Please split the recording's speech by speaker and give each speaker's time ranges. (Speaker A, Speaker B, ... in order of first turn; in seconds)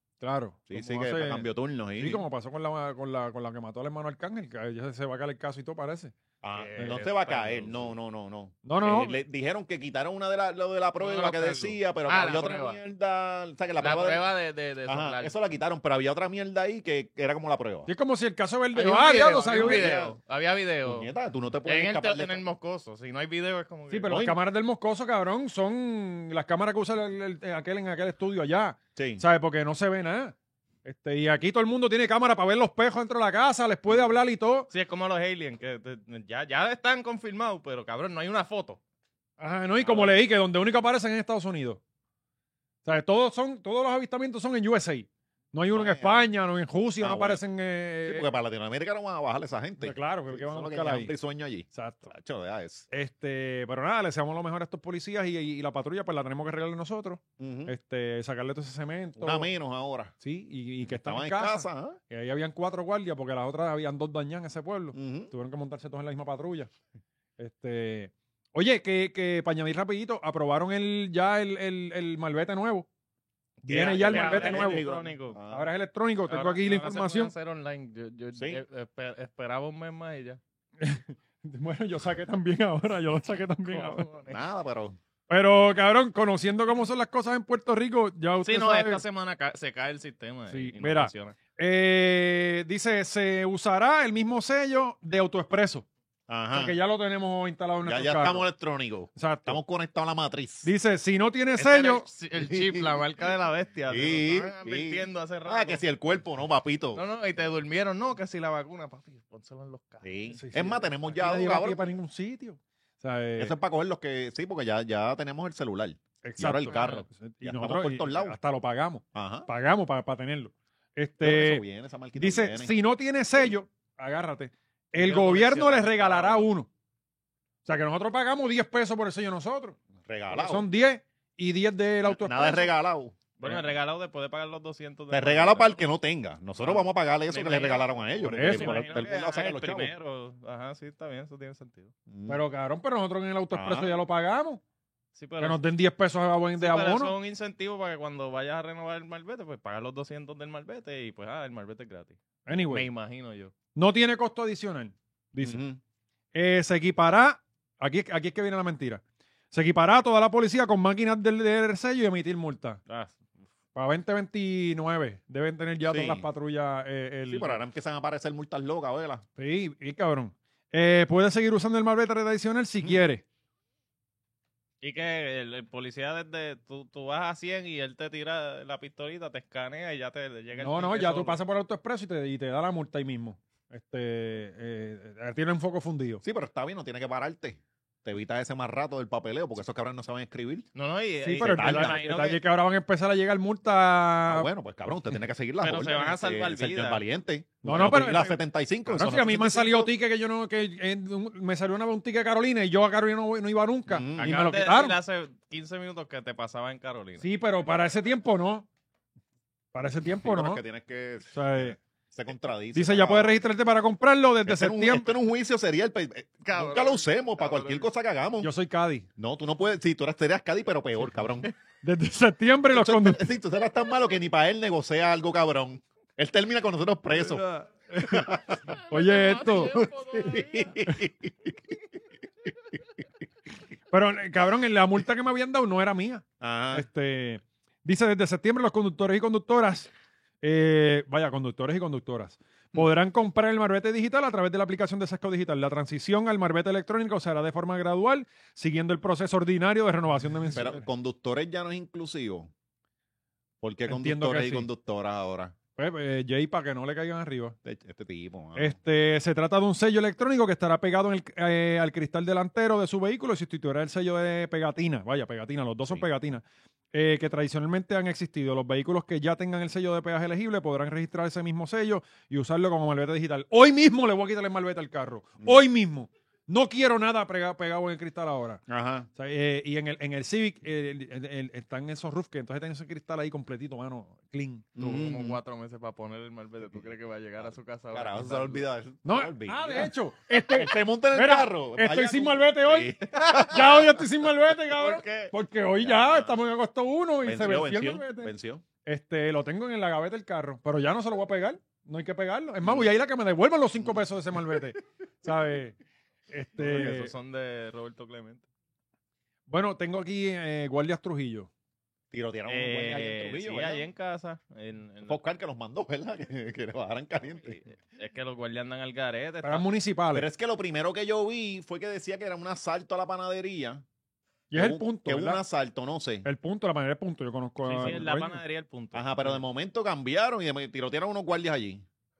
Speaker A: 0.2-6.1, 8.6-9.2, 17.9-20.0, 23.9-34.7, 39.4-41.8, 42.8-48.3, 49.8-51.1, 51.7-52.1, 52.9-59.5, 60.2-66.7, 67.4-72.9, 73.6-74.8, 75.5-77.3, 80.8-84.0, 85.3-89.0, 90.5-95.9, 96.5-98.5, 99.1-99.6, 100.6-102.0, 110.3-113.5, 116.2-121.6, 122.2-126.7, 127.7-129.8, 130.3-132.7, 138.3-138.9, 142.3-144.6, 145.4-147.1, 152.5-152.9, 153.7-155.6, 156.3-162.8, 163.7-167.6, 169.4-173.2, 180.6-186.2, 191.2-194.5, 197.6-204.9, 207.2-208.7, 209.7-210.6, 211.3-211.8, 212.7-215.1, 218.4-219.1, 221.8-223.3, 227.1-229.8, 233.9-239.9, 240.4-250.8, 253.9-254.7, 255.8-257.6, 258.5-278.6, 279.1-284.7, 289.0-298.3, 298.8-305.8, 306.3-307.1, 309.5-311.5, 319.4-320.3, 324.5-325.4, 326.2-328.4
Speaker B: 0.7-2.2, 6.4-14.3, 14.8-17.9, 19.4-20.1, 20.8-22.4, 24.1-24.4, 28.9-29.2, 45.7-46.3, 47.0-47.4, 48.0-52.9, 57.4-57.7, 59.2-60.1, 60.9-62.0, 64.9-65.3, 73.7-75.7, 78.3-78.6, 84.3-85.0, 96.3-96.8, 97.8-100.7, 102.3-103.0, 103.9-107.0, 110.0-111.8, 113.4-118.3, 119.1-119.5, 121.2-122.7, 130.0-130.7, 132.0-133.6, 135.1-139.9, 142.1-142.4, 143.5-144.0, 155.4-155.8, 165.8-166.2, 167.3-169.2, 186.2-190.7, 191.4-192.0, 194.3-199.9, 203.9-204.4, 210.2-213.4, 214.4-218.5, 219.2-221.5, 222.7-227.4, 228.0-228.8, 229.7-231.7, 232.4-232.8, 236.4-236.9, 250.5-252.5, 253.6-255.6, 257.6-258.8, 278.7-279.1, 284.8-285.4, 287.4-293.9, 295.8-296.4, 297.2-298.6, 302.6-302.9, 303.8-304.7, 312.1-313.9, 315.1-317.6, 320.1-323.8, 324.5-326.2, 328.9-331.8
Speaker C: 6.5-7.9, 11.0-12.8, 13.8-15.3, 18.7-21.1, 21.6-24.1, 34.7-38.8, 73.6-75.4, 76.3-80.4, 83.6-84.4, 88.4-91.3, 101.6-105.8, 106.9-110.1, 116.7-117.0, 125.0-126.5, 133.4-135.8, 136.6-141.9, 145.1-145.6, 146.6-153.5, 162.9-163.3, 174.8-181.4, 190.7-192.4, 195.6-197.0, 204.2-207.2, 216.4-217.9, 228.7-230.8, 284.8-288.6, 293.2-293.7, 294.7-295.3, 306.6-308.4, 312.5-315.2, 317.3-319.6, 327.6-329.4